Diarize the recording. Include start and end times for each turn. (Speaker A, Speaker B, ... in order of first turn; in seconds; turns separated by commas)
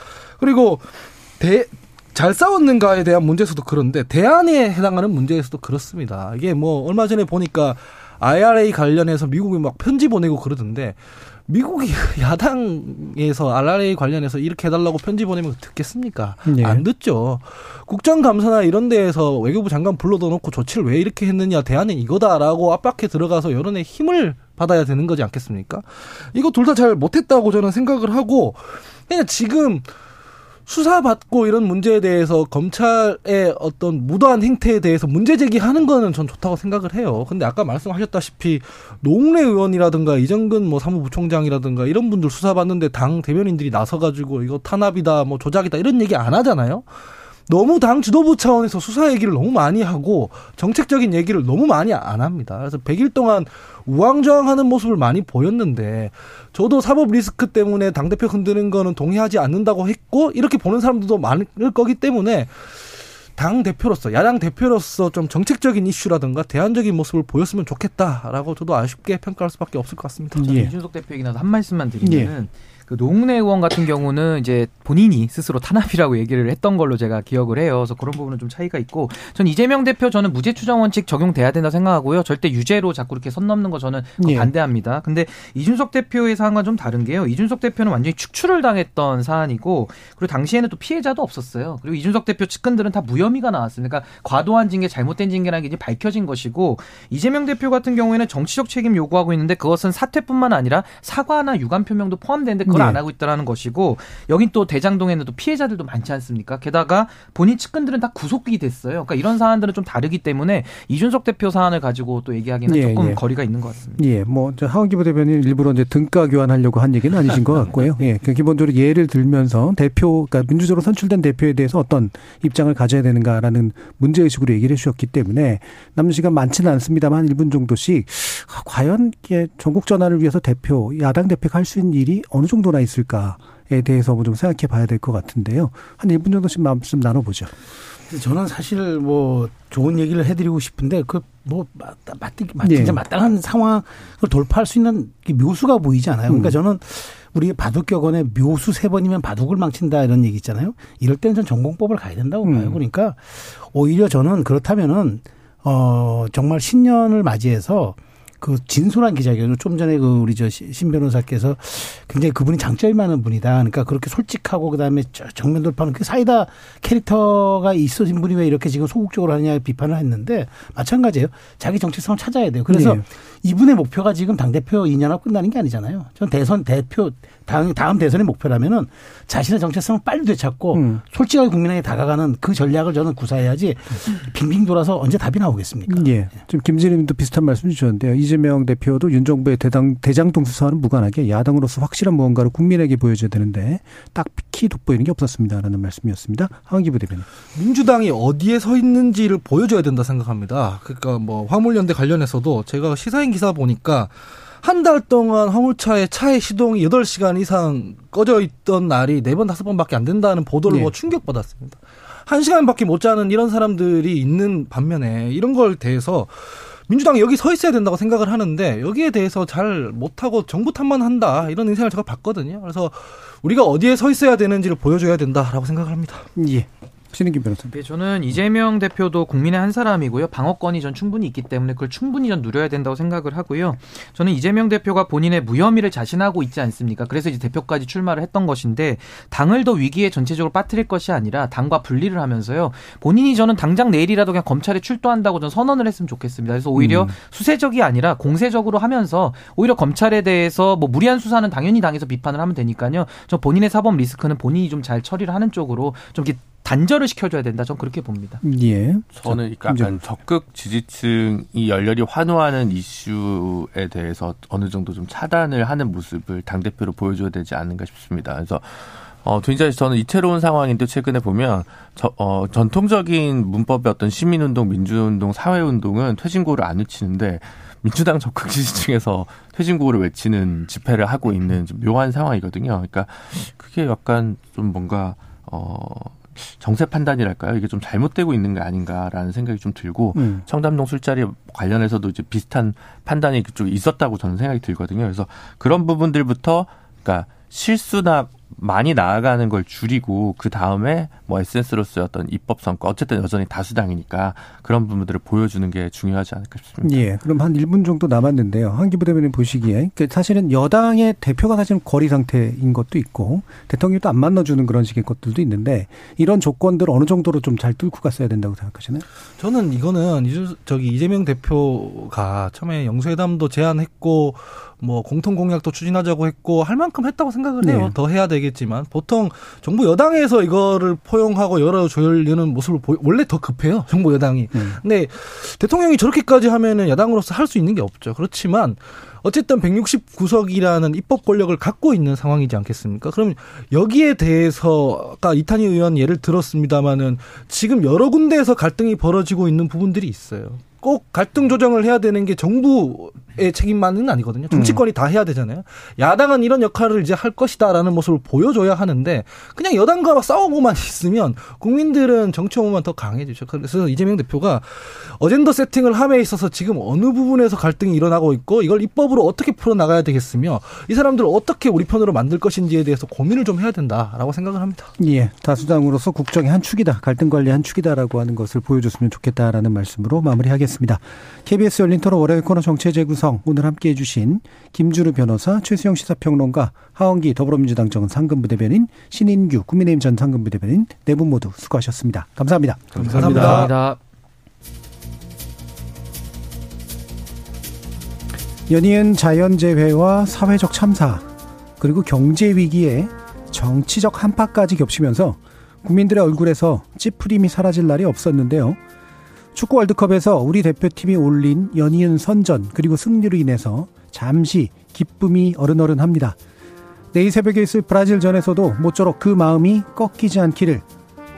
Speaker A: 0.4-29.9, Speaker B: 16.5-16.8, Speaker A: 30.7-46.9, Speaker A: 47.5-70.5, Speaker B: 70.4-70.7, Speaker C: 70.4-114.0, Speaker B: 72.0-72.3, Speaker B: 84.2-84.5, Speaker B: 102.7-103.0, Speaker B: 112.7-113.2, Speaker B: 114.0-137.5, Speaker D: 138.1-186.1, Speaker B: 142.6-143.0, Speaker B: 146.3-146.6, Speaker B: 152.4-152.8, Speaker B: 172.7-173.0, Speaker B: 180.7-181.0, Speaker B: 185.9-197.3, Speaker A: 197.6-226.3, Speaker B: 226.4-227.8, Speaker C: 227.7-258.4, Speaker B: 246.8-247.1, Speaker B: 258.4-259.9, Speaker E: 259.1-307.0, Speaker B: 290.1-290.4, Speaker B: 306.8-319.1, Speaker A: 319.4-374.9, Speaker B: 327.6-327.9, Speaker B: 334.5-334.8, Speaker B: 354.5-354.8, Speaker B: 375.0-393.7, Speaker C: 393.0-394.0, Speaker A: 393.0-393.7, Speaker B: 398.7-401.3, Speaker B: 401.8-408.8, Speaker B: 409.5-416.4, Speaker B: 417.1-420.9